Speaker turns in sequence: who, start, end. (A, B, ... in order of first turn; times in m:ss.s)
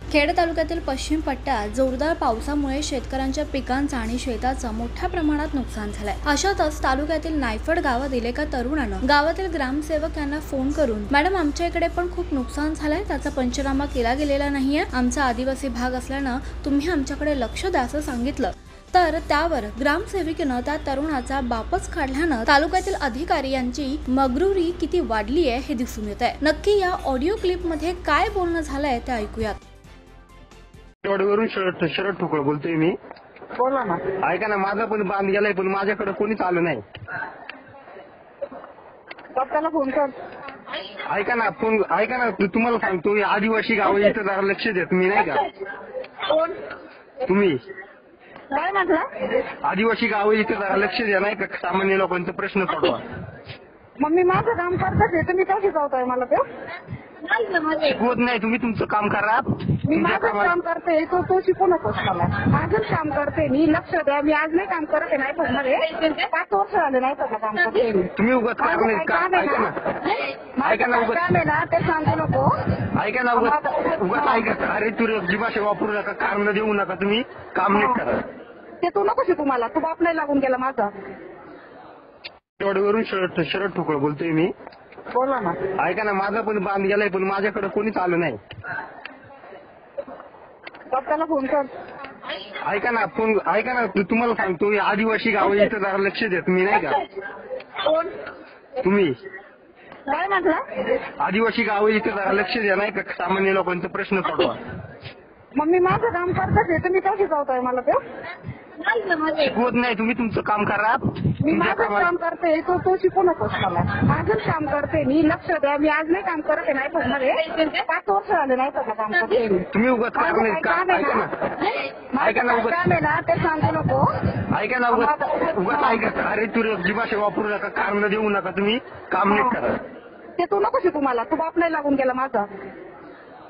0:00.1-0:29.6 A
0:31.0-0:33.0 B
0:33.6-0:34.0 C
0:34.2-0:36.8 B
0:39.3-0:40.1 C
0:41.0-0:45.4 B
0:46.3-0:46.6 C
0:47.2-0:47.6 B
0:48.5-0:49.0 C
0:49.6-0:53.0 B
0:54.0-0:56.4 C
0:57.8-1:00.5 B
0:59.9-1:12.5 C
1:08.1-1:09.7 B
1:10.6-1:11.2 B
1:12.9-1:18.2 B
1:13.3-1:14.4 C
1:17.7-1:18.0 C
1:18.8-1:20.9 C
1:22.6-1:24.5 B
1:25.1-1:25.6 C
1:25.8-1:28.4 B
1:30.9-1:31.7 C
1:32.6-1:37.0 B
1:37.8-1:38.1 C
1:38.8-1:39.2 B
1:40.1-1:40.6 C
1:41.2-1:44.6 B
1:45.5-1:48.0 C
1:49.3-1:52.1 B
1:51.4-2:04.3 C
1:59.7-2:01.3 B
2:02.2-2:02.8 B
2:04.5-2:09.8 B
2:04.9-2:06.0 C
2:09.3-2:09.6 C
2:10.4-2:12.5 C